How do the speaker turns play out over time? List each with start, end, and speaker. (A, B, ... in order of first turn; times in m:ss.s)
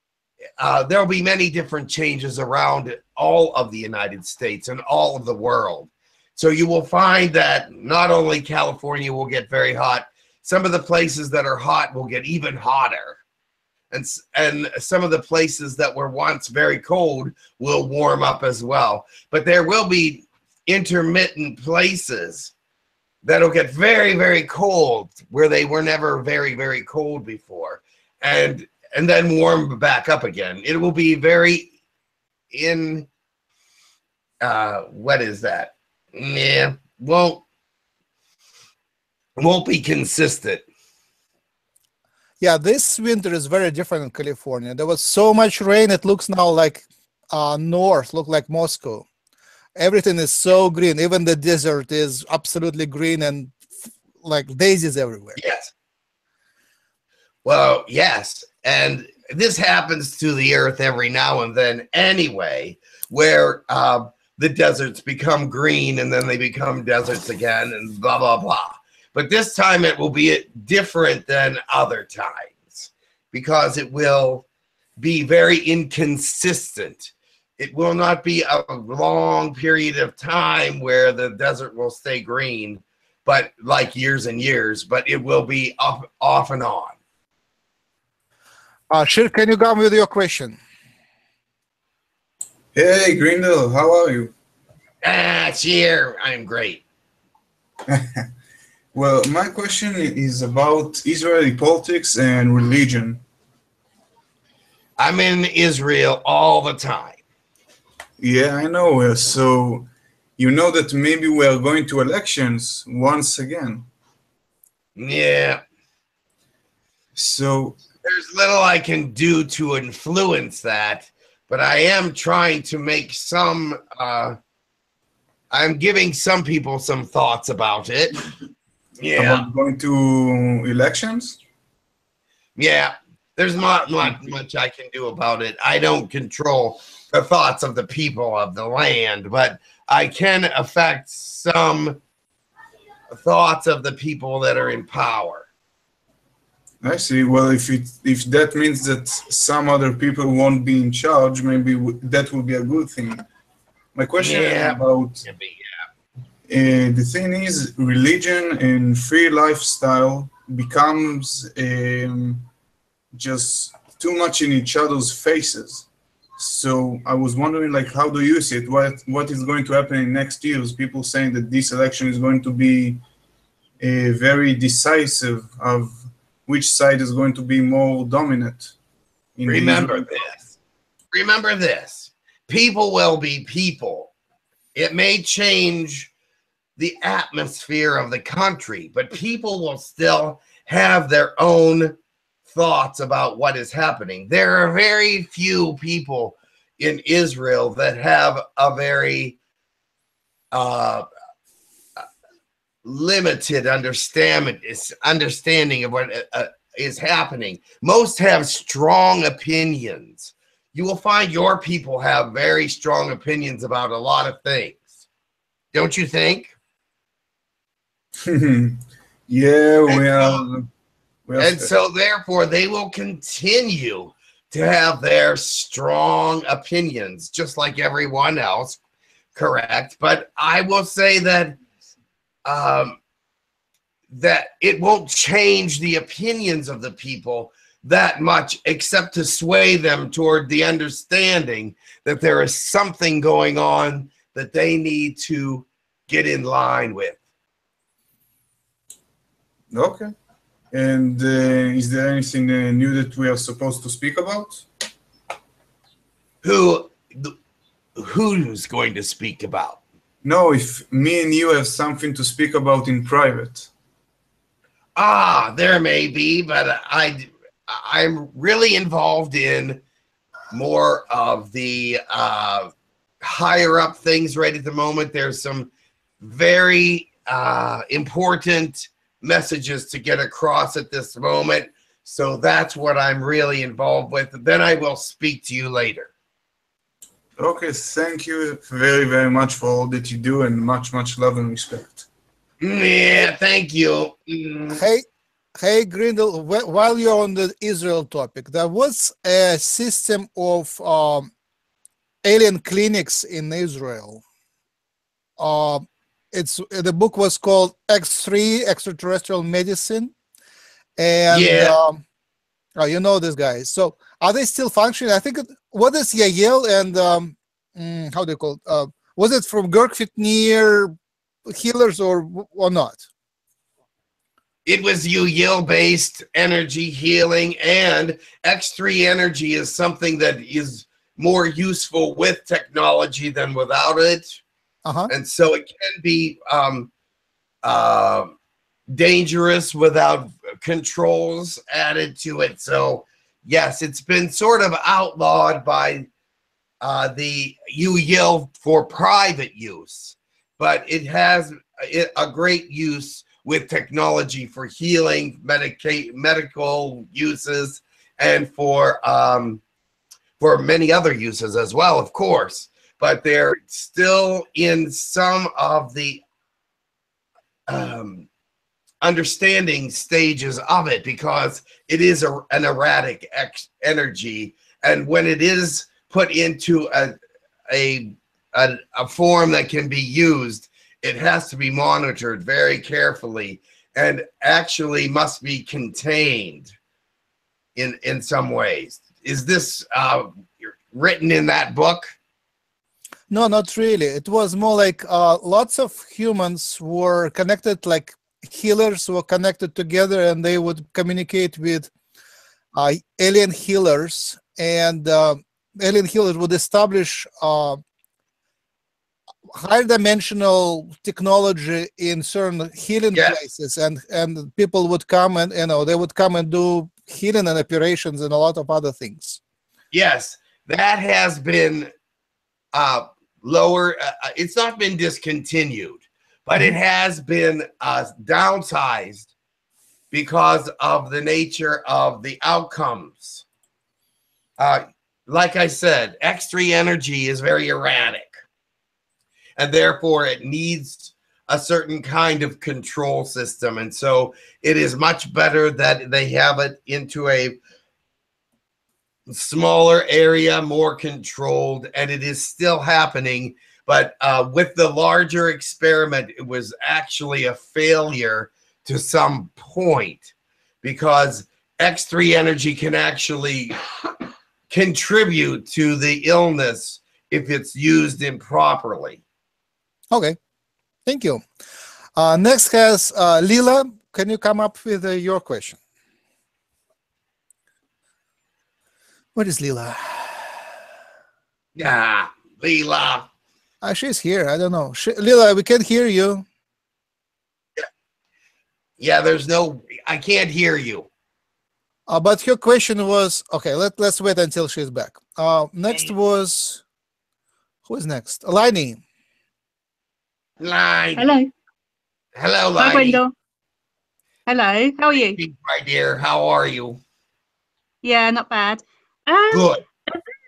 0:00.6-0:13.2 A
0:13.9-0:22.5 A
0:23.2-0:31.7 A
0:32.5-0:33.1 A
0:34.4-0:37.4 A
0:39.4-0:40.6 A
0:42.4-0:49.1 B
0:49.8-0:53.6 B
0:54.2-0:55.4 B
0:55.4-0:55.7 A
0:57.4-1:14.5 A
1:15.0-1:27.0 A
1:28.9-1:30.6 B
1:32.8-1:34.3 C
1:35.0-1:36.8 A
1:37.9-1:38.3 C
1:38.9-1:43.2 C
1:45.0-1:47.2 A
1:48.2-1:53.9 C
1:55.0-1:55.6 A
1:57.2-1:57.8 C
1:58.0-2:04.4 A
2:05.5-2:08.3 A
2:09.0-2:09.5 A
2:09.2-2:11.4 C
2:12.6-2:22.0 A
2:23.1-2:25.5 A
2:26.8-2:33.2 C
2:34.0-2:35.3 C
2:34.2-2:35.7 A
2:36.5-2:42.5 C
2:43.1-2:53.0 C
2:53.8-2:58.7 C
2:59.4-3:00.0 C
2:59.5-3:00.4 A
3:01.1-3:04.1 A
3:04.8-3:06.1 A
3:06.8-3:19.4 A
3:20.5-3:21.1 A
3:22.8-3:35.0 A
3:35.7-3:36.6 A
3:38.2-3:40.7 C
3:39.9-3:40.4 A
3:41.3-3:41.7 C
3:41.4-3:48.8 A
3:49.4-3:51.6 A
3:52.4-3:53.0 A
3:54.1-4:07.2 A
4:09.7-4:10.1 C
4:10.7-4:14.6 C
4:16.4-4:17.4 A
4:18.0-4:19.8 A
4:20.2-4:23.7 C
4:25.0-4:29.8 A
4:30.5-4:46.1 A
4:47.4-4:52.1 C
4:52.6-4:54.8 A
4:54.7-4:55.1 B
4:55.6-5:01.3 B
5:02.2-5:04.2 B
5:05.4-5:10.1 B
5:11.0-5:12.0 B
5:11.3-5:11.8 A
5:12.8-5:21.0 B
5:21.5-5:23.1 B
5:24.6-5:34.4 A
5:34.9-5:35.1 B
5:35.1-5:36.9 A
5:37.6-5:38.3 A
5:38.9-5:46.1 A
5:46.8-5:59.6 A
6:00.4-6:06.2 A
6:07.7-6:08.3 A
6:09.0-6:17.2 A
6:17.7-6:26.7 A
6:27.8-6:32.1 A
6:33.3-6:41.9 B
6:42.8-6:47.8 B
6:49.5-6:59.4 B
6:59.9-7:01.9 A
7:02.7-7:09.3 A
7:10.1-7:13.4 A
7:14.6-7:18.4 A
7:19.6-7:27.6 A
7:29.3-7:43.8 A
7:44.7-7:49.2 A
7:50.1-7:50.4 B
7:51.1-7:51.4 B
7:52.2-7:55.8 B
7:59.4-8:00.6 B
8:01.8-8:03.3 A
8:03.8-8:06.5 B
8:09.0-8:11.1 A
8:12.1-8:16.8 B
8:17.9-8:19.0 B
8:20.6-8:21.4 A
8:21.2-8:21.5 D
8:22.4-8:23.2 A
8:22.8-8:23.3 D
8:24.5-8:25.4 D
8:25.4-8:27.0 A
8:28.0-8:30.2 D
8:29.5-8:29.8 A